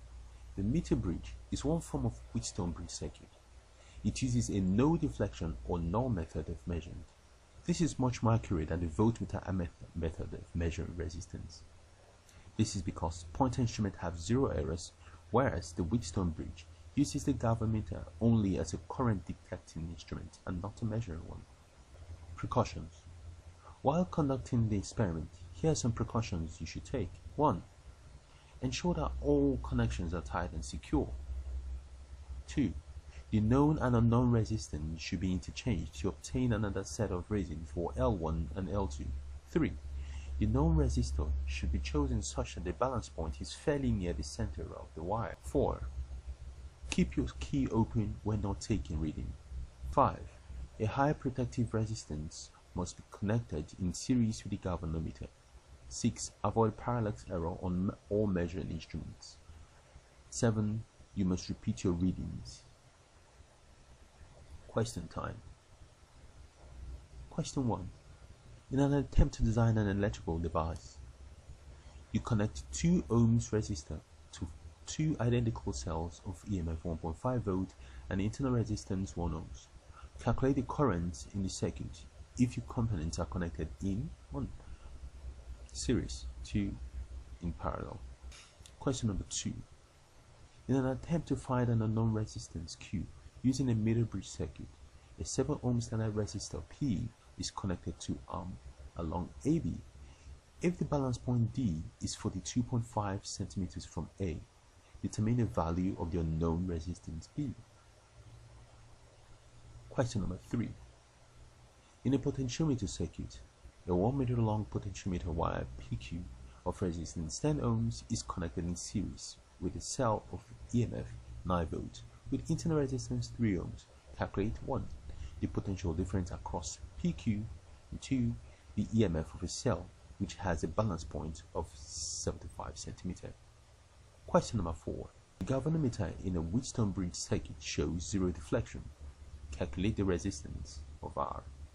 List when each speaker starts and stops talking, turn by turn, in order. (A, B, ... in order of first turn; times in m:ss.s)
0:00.6-0:03.3 A
0:04.0-0:07.1 A
0:07.6-0:11.7 A
0:12.6-0:21.5 A
0:22.4-0:23.1 A
0:23.8-0:27.7 A
0:28.6-0:31.2 A
0:32.5-0:32.8 A
0:33.3-0:39.8 A
0:40.4-0:45.9 A
0:46.9-0:49.4 A
0:49.9-0:55.3 A
0:55.9-0:59.4 A
1:00.3-1:02.7 A
1:04.7-1:05.4 A
1:07.3-1:08.0 A
1:08.7-1:11.0 A
1:12.1-1:24.6 A
1:25.7-1:26.8 A
1:27.4-1:28.0 A
1:28.8-1:29.7 A
1:30.7-1:39.9 A
1:40.6-1:44.5 A
1:45.0-1:47.6 A
1:49.9-1:50.8 A
1:52.0-2:13.4 A
2:14.3-2:18.9 A
2:19.5-2:21.5 A